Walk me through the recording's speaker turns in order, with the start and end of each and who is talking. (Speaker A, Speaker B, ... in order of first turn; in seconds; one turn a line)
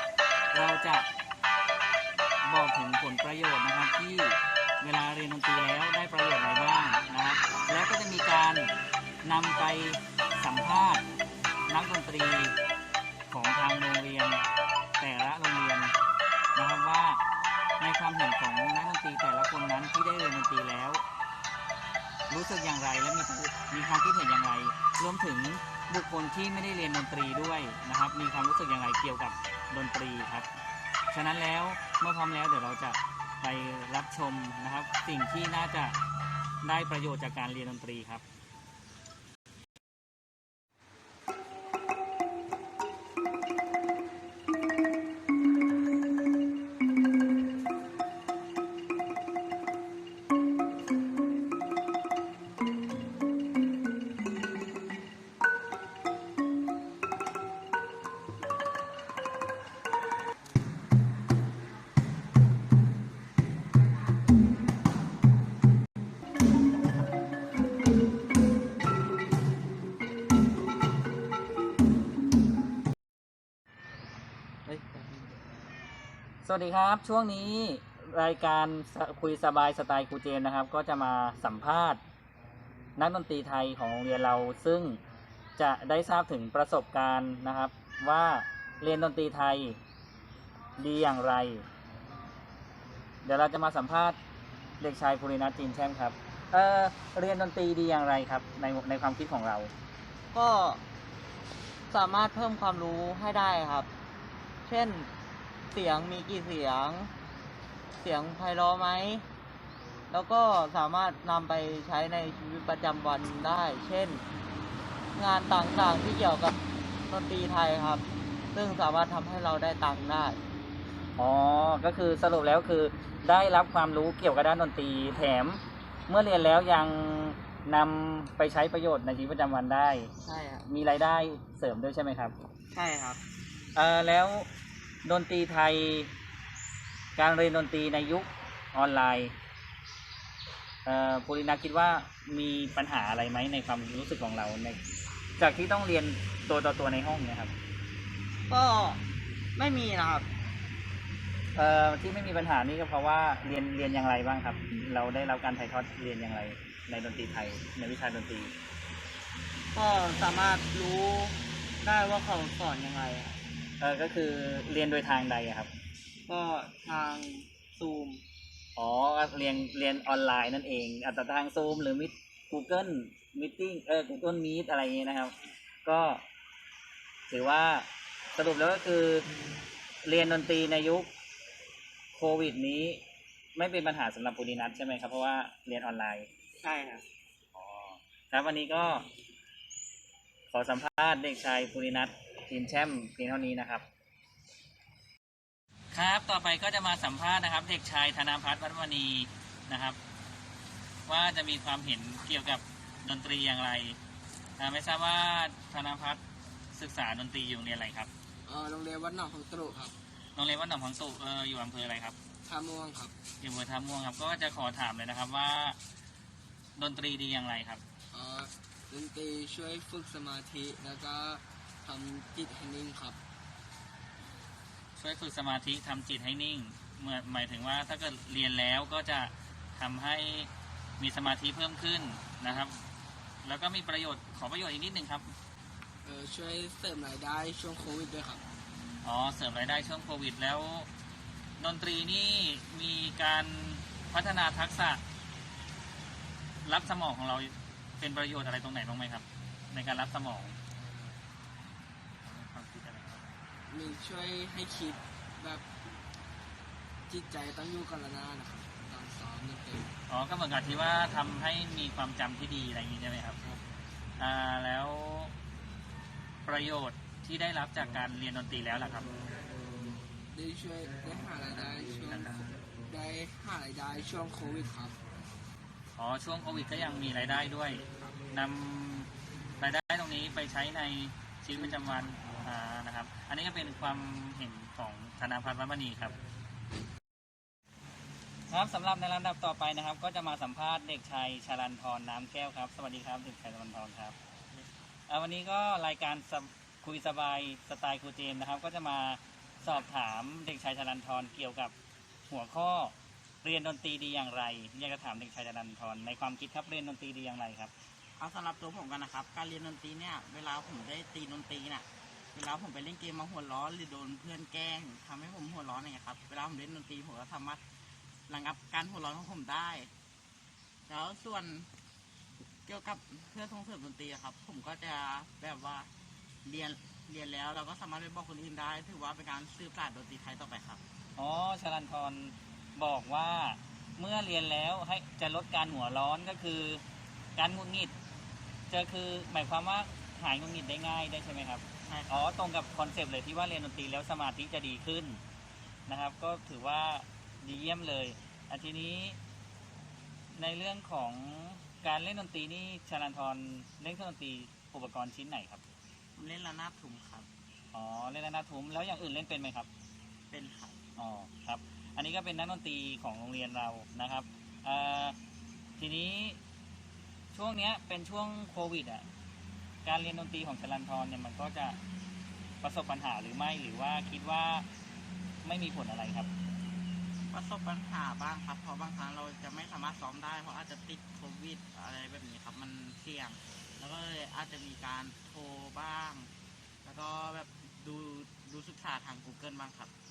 Speaker A: 0.5-1.1
Speaker A: 2.4-8.7
Speaker A: 9.2-11.0
Speaker A: 11.7-12.6
Speaker A: 13.3-14.4
Speaker A: 15.0-15.9
Speaker A: 16.5-17.2
Speaker A: 17.8-21.0
Speaker A: 22.3-30.5
Speaker A: 31.1-36.0
Speaker A: 36.6-38.2
Speaker B: 74.7-75.0
Speaker A: 76.4-82.0
Speaker A: 83.0-85.0
Speaker A: 85.6-89.8
Speaker A: 90.8-91.7
Speaker A: 93.2-94.2
Speaker A: 94.8-99.7
Speaker B: 100.3-100.8
Speaker B: 101.9-103.9
Speaker B: 104.7-105.1
Speaker B: 105.7-107.1
Speaker B: 108.0-109.2
Speaker B: 110.1-114.2
Speaker B: 115.2-116.6
Speaker B: 117.1-120.4
Speaker A: 121.2-130.1
Speaker B: 130.2-130.7
Speaker A: 130.7-132.3
Speaker B: 132.7-133.2
Speaker A: 133.7-134.5
Speaker A: 135.0-136.1
Speaker A: 137.2-139.3
Speaker A: 140.8-144.8
Speaker A: 145.4-147.5
Speaker B: 148.5-149.0
Speaker B: 149.6-150.2
Speaker A: 151.5-158.5
Speaker B: 159.7-163.4
Speaker A: 163.8-165.7
Speaker B: 166.3-168.2
Speaker A: 168.8-176.2
Speaker A: 177.3-179.3
Speaker A: 180.0-181.1
Speaker A: 182.1-183.0
Speaker A: 183.5-186.3
Speaker B: 186.6-187.0
Speaker A: 187.5-189.1
Speaker A: 190.5-193.9
Speaker A: 195.9-200.0
Speaker A: 201.1-204.0
Speaker A: 204.6-206.2
Speaker A: 206.7-208.1
Speaker C: 208.4-209.9
Speaker A: 210.3-212.2
Speaker C: 212.4-213.1
Speaker A: 213.4-215.8
Speaker A: 216.8-217.8
Speaker C: 218.1-223.2
Speaker A: 224.9-232.8
Speaker A: 233.4-235.3
Speaker C: 236.0-238.4
Speaker A: 239.0-240.9
Speaker A: 241.6-245.0
Speaker A: 246.6-250.6
Speaker A: 252.2-253.2
Speaker C: 253.7-255.7
Speaker C: 257.1-259.9
Speaker A: 260.1-263.4
Speaker A: 264.2-265.3
Speaker A: 266.4-269.1
Speaker C: 270.3-275.0
Speaker A: 275.9-286.2
Speaker C: 281.5-281.8
Speaker A: 288.5-294.1
Speaker A: 295.1-301.7
Speaker A: 302.3-307.7
Speaker D: 308.2-317.6
Speaker D: 318.3-319.9
Speaker D: 320.9-321.7
Speaker D: 322.6-325.9
Speaker D: 326.4-330.8
Speaker A: 331.1-336.8
Speaker A: 337.4-337.9
Speaker A: 338.7-345.2
Speaker D: 341.8-342.2
Speaker A: 345.9-349.2
Speaker A: 350.3-355.6
Speaker D: 356.1-357.3
Speaker A: 357.7-359.7
Speaker D: 360.3-360.8
Speaker A: 361.0-365.1
Speaker A: 365.8-366.4
Speaker A: 367.3-369.1
Speaker A: 369.8-371.8
Speaker A: 372.6-374.6
Speaker A: 375.4-376.3
Speaker D: 377.3-386.3
Speaker D: 386.8-389.9